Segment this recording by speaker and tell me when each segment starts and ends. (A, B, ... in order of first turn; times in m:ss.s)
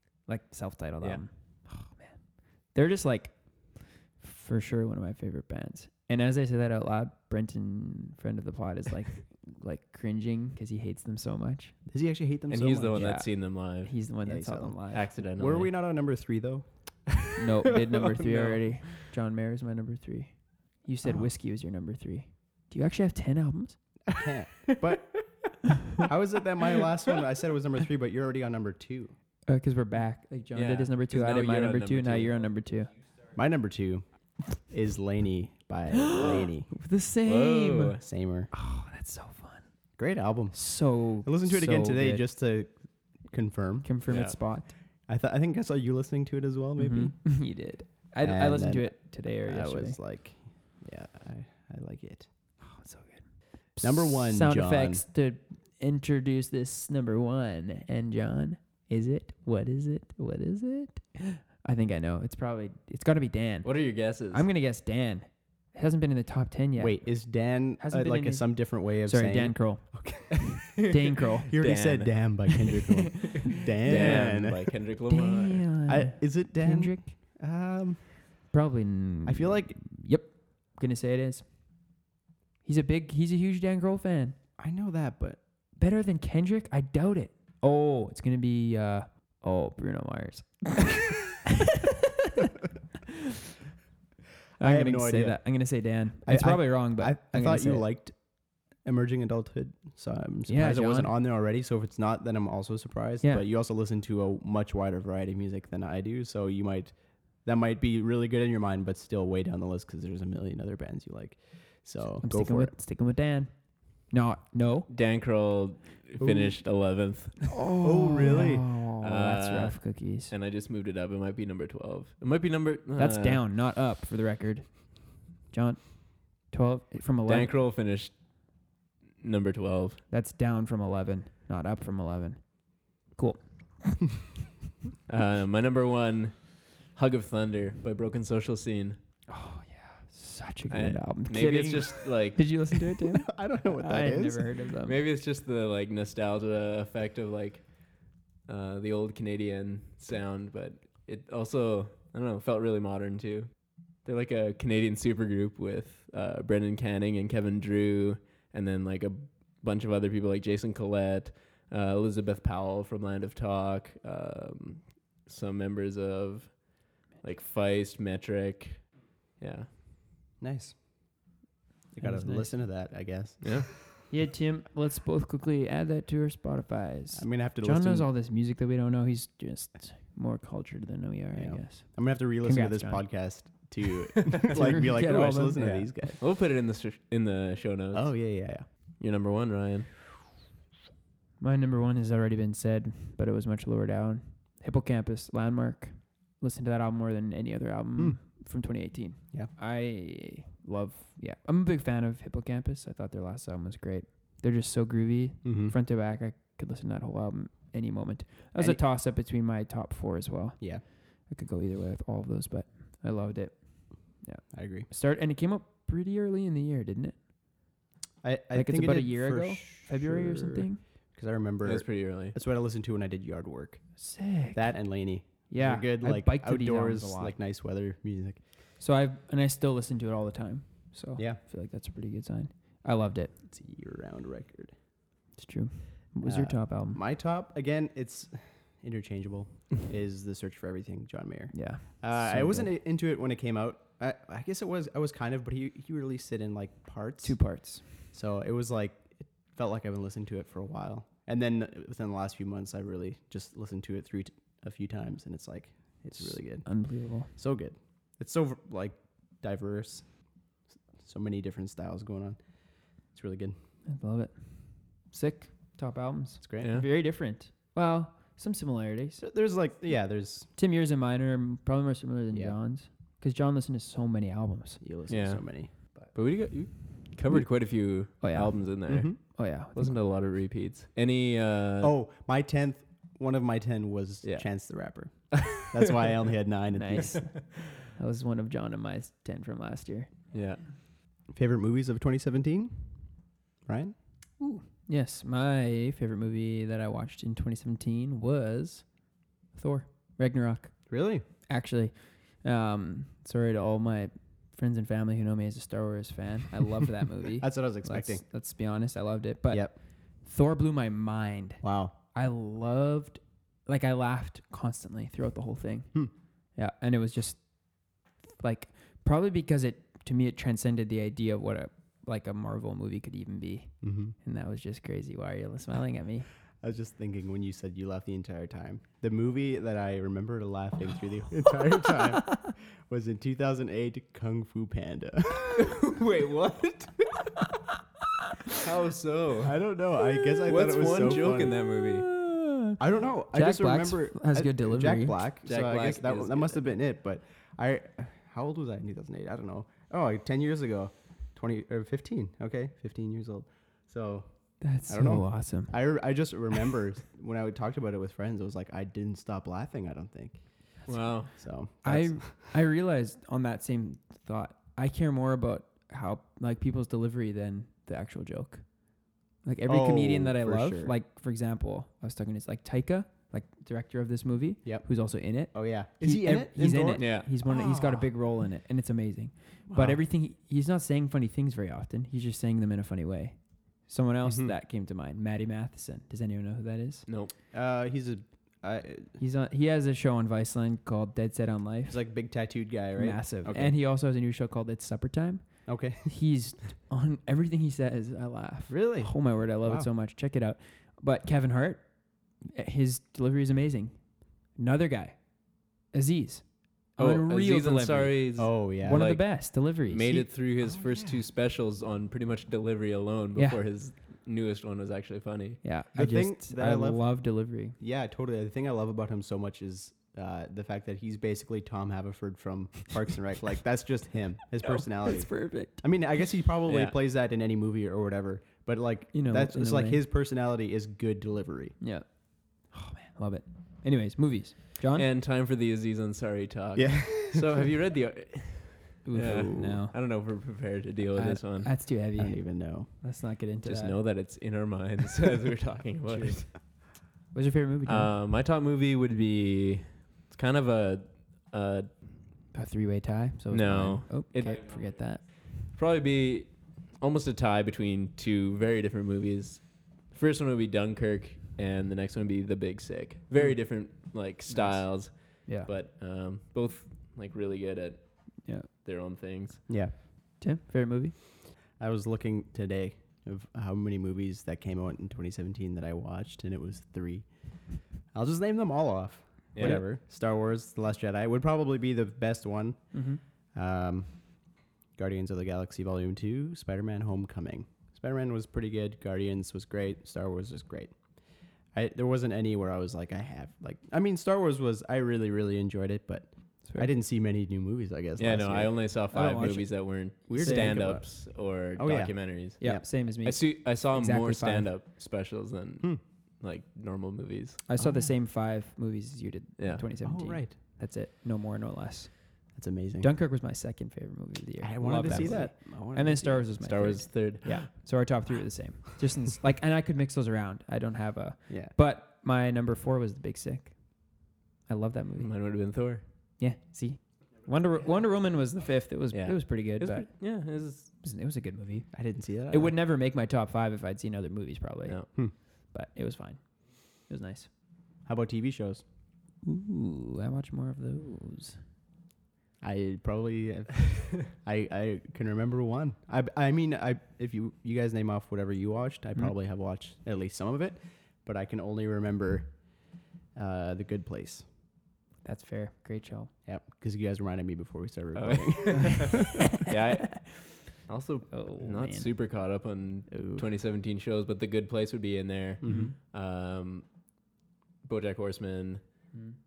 0:00.3-0:11.8 A
0:11.9-0:13.1 B
0:12.5-0:13.9 C
0:12.9-0:15.1 A
0:14.2-0:16.6 B
0:14.9-0:15.7 C
0:17.4-0:23.8 A
0:18.0-0:19.0 C
0:24.1-0:25.2 B
0:26.0-0:29.1 B
0:29.5-0:32.9 A
0:30.5-0:32.3 C
0:33.3-0:36.7 B
0:36.1-0:38.0 A
0:37.2-0:38.0 C
0:38.0-0:38.5 B
0:38.5-0:39.7 A
0:40.0-0:43.9 B
0:40.5-0:42.2 A
0:43.8-0:44.7 A
0:44.1-0:44.4 C
0:45.1-0:47.2 B
0:46.8-0:50.0 A
0:48.2-0:52.3 B
0:52.6-1:07.1 A
0:53.8-0:55.0 B
1:03.6-1:04.5 C
1:06.8-1:10.6 B
1:07.8-1:11.5 A
1:10.5-1:12.3 C
1:11.5-1:14.7 B
1:13.2-1:14.3 A
1:13.8-1:15.7 C
1:15.1-1:17.1 A
1:15.9-1:18.2 B
1:18.5-1:21.5 A
1:19.2-1:19.8 B
1:22.6-1:24.4 A
1:24.6-1:25.4 B
1:25.8-1:31.5 A
1:32.2-1:32.5 A
1:34.6-1:35.5 B
1:34.6-1:37.8 A
1:36.2-1:52.7 B
1:40.5-1:41.1 A
1:52.2-1:54.9 A
1:54.9-1:57.5 C
1:56.2-1:56.6 B
1:57.5-2:00.3 A
1:57.8-1:58.7 B
1:59.0-2:03.4 C
2:03.0-2:07.5 A
2:07.2-2:08.2 C
2:09.2-2:10.0 C
2:10.1-2:14.0 A
2:15.1-2:19.0 C
2:19.3-2:25.0 A
2:20.7-2:22.7 C
2:23.2-2:24.5 B
2:24.8-2:49.7 C
2:50.4-2:50.8 B
2:51.9-2:53.8 B
2:52.0-2:52.5 A
2:53.4-2:53.7 C
2:54.1-3:03.0 A
2:57.1-2:58.1 B
3:01.3-3:06.2 B
3:04.4-3:05.8 A
3:05.6-3:08.4 C
3:07.9-3:08.6 B
3:09.0-3:10.0 C
3:11.4-3:37.2 A
3:25.4-3:25.7 B
3:34.5-3:34.9 B
3:38.2-3:44.0 B
3:38.5-3:40.8 A
3:41.6-3:42.4 C
3:44.0-3:47.4 A
3:44.5-3:48.4 B
3:48.8-3:53.3 A
3:53.5-3:54.7 B
3:55.4-3:57.0 A
3:56.2-4:20.1 B
4:01.5-4:02.7 A
4:07.2-4:07.9 A
4:16.1-4:17.3 A
4:21.0-4:22.4 B
4:23.1-4:23.6 B
4:23.9-4:29.2 A
4:26.4-4:26.7 B
4:26.6-4:26.9 C
4:29.2-4:30.5 B
4:30.6-4:34.8 A
4:34.8-4:36.1 B
4:35.1-4:41.9 C
4:38.2-4:40.0 A
4:38.9-4:39.2 B
4:41.8-4:47.3 B
4:45.3-4:45.9 C
4:46.7-4:50.1 A
4:50.3-4:50.6 C
4:51.3-4:52.9 B
4:53.6-4:53.9 B
4:54.4-4:59.0 A
4:59.5-5:00.9 A
5:00.9-5:01.2 B
5:01.5-5:16.0 A
5:07.4-5:08.2 B
5:11.6-5:11.9 B
5:16.6-5:26.3 A
5:23.8-5:24.1 B
5:26.6-5:35.6 B
5:35.4-5:37.3 C
5:38.5-5:39.6 C
5:39.4-5:41.6 B
5:40.4-5:42.1 C
5:41.8-5:42.8 A
5:42.8-5:54.3 B
5:43.3-5:45.2 A
5:45.4-5:46.6 C
5:54.6-5:55.8 A
5:54.9-6:02.5 B
6:00.9-6:01.3 C
6:01.8-6:27.0 A
6:09.7-6:10.9 B
6:15.5-6:18.1 B
6:17.0-6:17.3 C
6:19.7-6:20.0 B
6:24.2-6:24.5 B
6:27.1-6:27.3 C
6:27.5-6:29.2 B
6:29.2-6:32.0 A
6:31.9-6:33.7 B
6:33.0-6:50.3 A
6:35.6-6:36.1 B
6:38.7-6:39.9 B
6:47.0-6:55.6 C
6:48.4-6:49.1 B
6:50.6-6:51.2 B
6:53.4-6:53.6 A
6:55.6-6:57.8 A
6:55.9-6:57.1 B
6:57.8-7:11.8 B
7:04.7-7:05.8 A
7:06.7-7:07.0 C
7:09.1-7:10.0 A
7:11.8-7:15.0 A
7:14.9-7:21.8 C
7:16.7-7:17.7 B
7:19.0-7:19.9 A
7:21.1-7:23.9 A
7:22.2-7:23.0 B
7:23.6-7:26.5 C
7:26.1-7:26.4 B
7:27.3-7:28.1 A
7:27.8-7:31.9 C
7:32.5-7:35.2 A
7:33.5-7:49.6 C
7:44.5-7:45.7 A
7:49.7-7:49.9 B
7:50.4-7:51.2 A
7:51.7-8:02.9 B
7:59.5-7:59.8 C
7:59.6-7:59.8 A
8:02.9-8:03.2 A
8:03.5-8:11.2 B
8:11.7-8:18.8 B
8:18.2-8:27.6 C
8:19.1-8:20.8 A
8:20.3-8:22.8 B
8:22.6-8:24.7 A
8:27.7-8:32.4 A
8:27.8-8:28.1 B
8:29.6-8:29.9 C
8:30.0-8:30.6 B
8:32.5-8:33.1 B
8:33.0-8:45.6 A
8:34.6-8:36.5 B
8:35.0-8:35.4 C
8:36.6-8:37.7 C
8:41.5-8:41.7 B
8:45.2-8:46.0 C
8:46.4-8:50.3 A
8:49.1-8:50.9 C
8:51.0-8:51.9 A
8:51.9-8:52.7 B
8:52.5-8:57.5 A
8:58.0-8:58.8 B
8:59.4-9:01.6 A
9:02.6-9:14.4 B
9:15.2-9:16.3 A
9:16.4-9:19.4 B
9:18.2-9:26.9 C
9:21.3-9:22.1 A
9:23.1-9:23.4 B
9:25.6-9:25.9 B
9:25.6-9:25.9 A
9:27.8-9:29.2 C